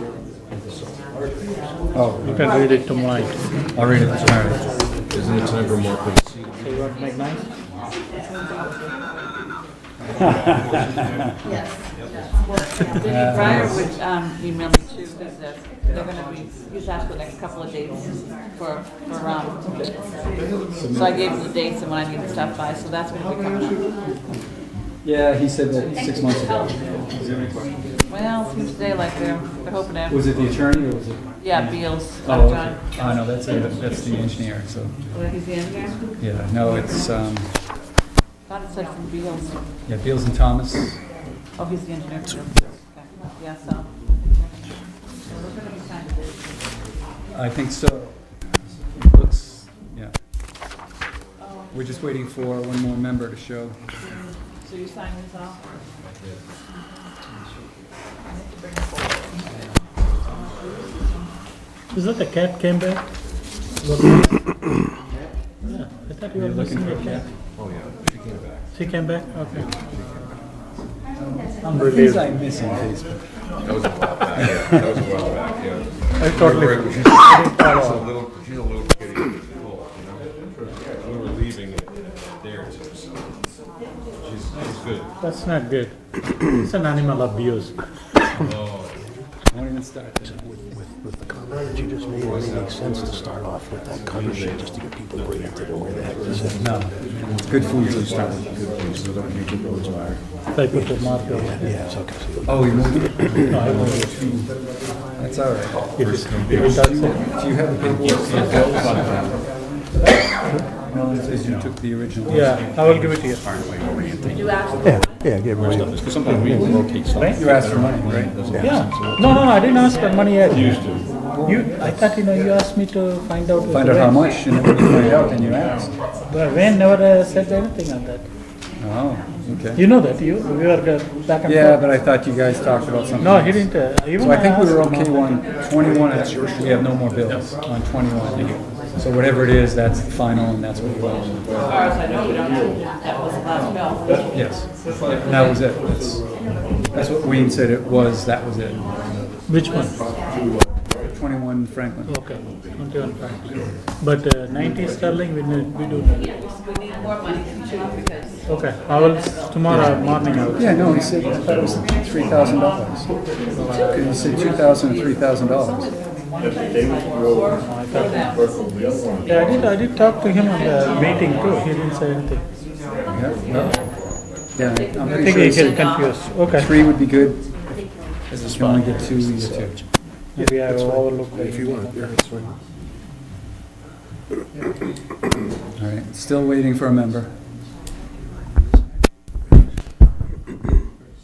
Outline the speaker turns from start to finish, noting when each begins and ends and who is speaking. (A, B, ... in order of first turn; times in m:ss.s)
0:01.9-0:02.6 A
0:02.2-0:03.4 B
0:03.7-0:04.7 A
0:05.1-0:06.3 C
0:06.6-0:07.5 B
0:10.2-0:10.8 A
0:12.7-0:19.8 D
0:13.0-0:13.9 A
0:20.7-0:21.2 A
0:20.9-0:23.9 D
0:25.0-0:27.7 A
0:28.1-0:30.2 D
0:30.1-0:35.0 A
0:31.4-0:32.9 D
0:35.1-0:36.0 D
0:36.2-0:37.5 A
0:38.5-0:39.6 D
0:39.8-0:41.0 A
0:41.6-0:44.1 D
0:45.3-0:46.3 D
0:47.3-0:48.3 A
0:48.9-0:50.1 A
0:51.4-0:51.6 D
0:51.7-0:53.8 A
0:54.6-0:55.6 D
0:58.3-0:59.7 D
1:01.9-1:03.0 B
1:03.8-1:04.4 B
1:05.6-1:07.2 B
1:06.4-1:07.2 A
1:07.6-1:08.5 C
1:08.7-1:09.7 B
1:11.6-1:12.3 B
1:11.7-1:13.2 A
1:13.7-1:19.7 C
1:16.2-1:18.1 B
1:21.1-1:21.8 C
1:22.4-1:23.0 C
1:24.5-1:25.0 C
1:25.2-1:27.8 B
1:29.5-1:30.4 A
1:30.2-1:36.7 E
1:36.6-1:38.1 A
1:37.8-1:38.2 C
1:38.0-1:39.3 E
1:38.8-1:40.2 C
1:40.5-1:42.0 B
1:40.7-1:42.9 E
1:42.4-1:49.3 A
1:43.5-1:44.0 B
1:46.0-1:47.2 B
1:48.5-1:49.1 C
1:50.9-1:52.6 A
1:52.3-1:53.4 B
1:54.3-1:55.0 D
1:54.8-1:57.3 E
1:55.8-1:56.6 C
1:56.5-1:58.4 A
1:57.2-1:57.4 B
1:58.5-1:58.9 E
1:58.5-2:04.4 B
2:01.2-2:02.0 A
2:03.7-2:05.9 A
2:06.3-2:08.3 B
2:08.8-2:09.8 A
2:09.7-2:11.8 B
2:11.4-2:21.4 A
2:13.2-2:15.3 B
2:21.6-2:24.1 D
2:24.3-2:26.3 A
2:26.9-2:28.9 A
2:29.5-2:30.0 B
2:31.1-2:32.2 A
2:32.0-2:36.2 B
2:36.8-2:38.4 D
2:38.5-2:41.1 B
2:40.5-2:43.1 A
2:43.6-2:44.9 D
2:43.7-2:45.9 A
2:45.6-2:46.0 D
2:47.6-2:48.3 B
2:49.2-2:52.4 B
2:53.1-2:53.8 A
2:54.5-2:57.5 A
2:55.0-2:56.7 B
2:58.3-2:59.8 A
2:58.3-2:59.8 E
3:00.4-3:02.1 B
3:01.6-3:02.5 C
3:05.8-3:07.3 A